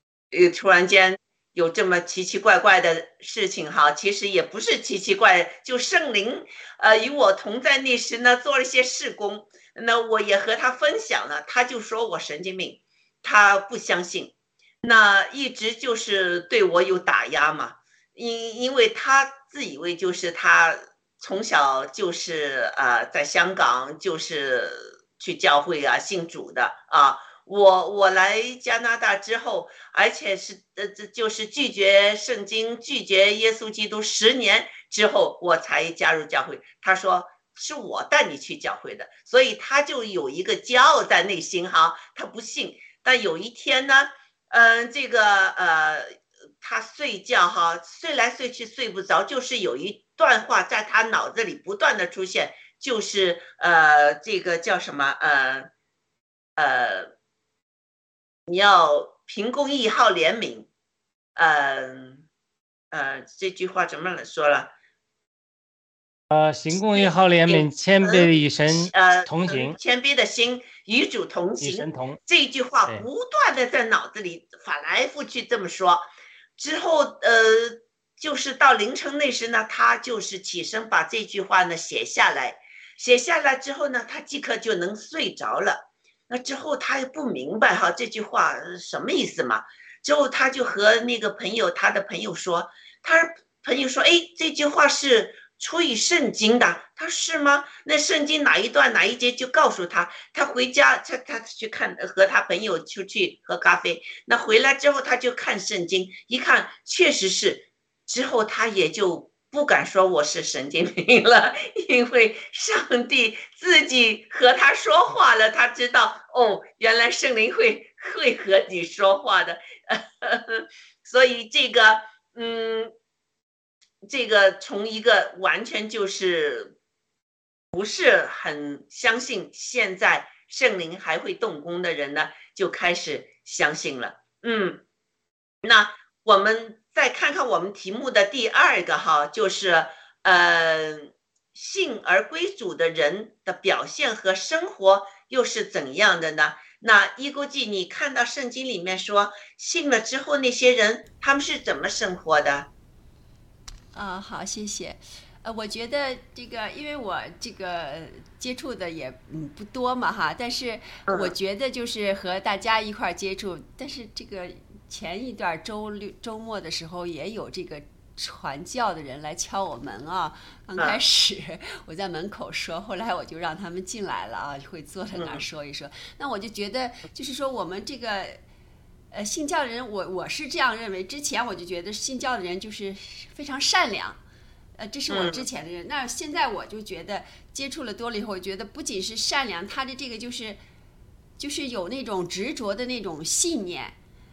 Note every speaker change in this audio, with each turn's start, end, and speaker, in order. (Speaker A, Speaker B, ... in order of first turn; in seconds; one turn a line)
Speaker A: 0.3-55.7
Speaker A: 56.6-57.1
Speaker A: 58.5-60.7
Speaker A: 61.4-62.2
Speaker A: 62.9-64.7
Speaker B: 66.3-69.8
Speaker A: 66.9-122.9
Speaker B: 71.6-72.2
Speaker A: 124.0-126.7
Speaker A: 127.7-134.8
Speaker A: 135.6-152.7
Speaker C: 153.9-178.4
Speaker A: 161.1-161.3
Speaker A: 175.2-175.5
Speaker C: 179.1-184.2
Speaker C: 184.8-190.6
Speaker A: 185.1-185.4
Speaker C: 191.4-194.0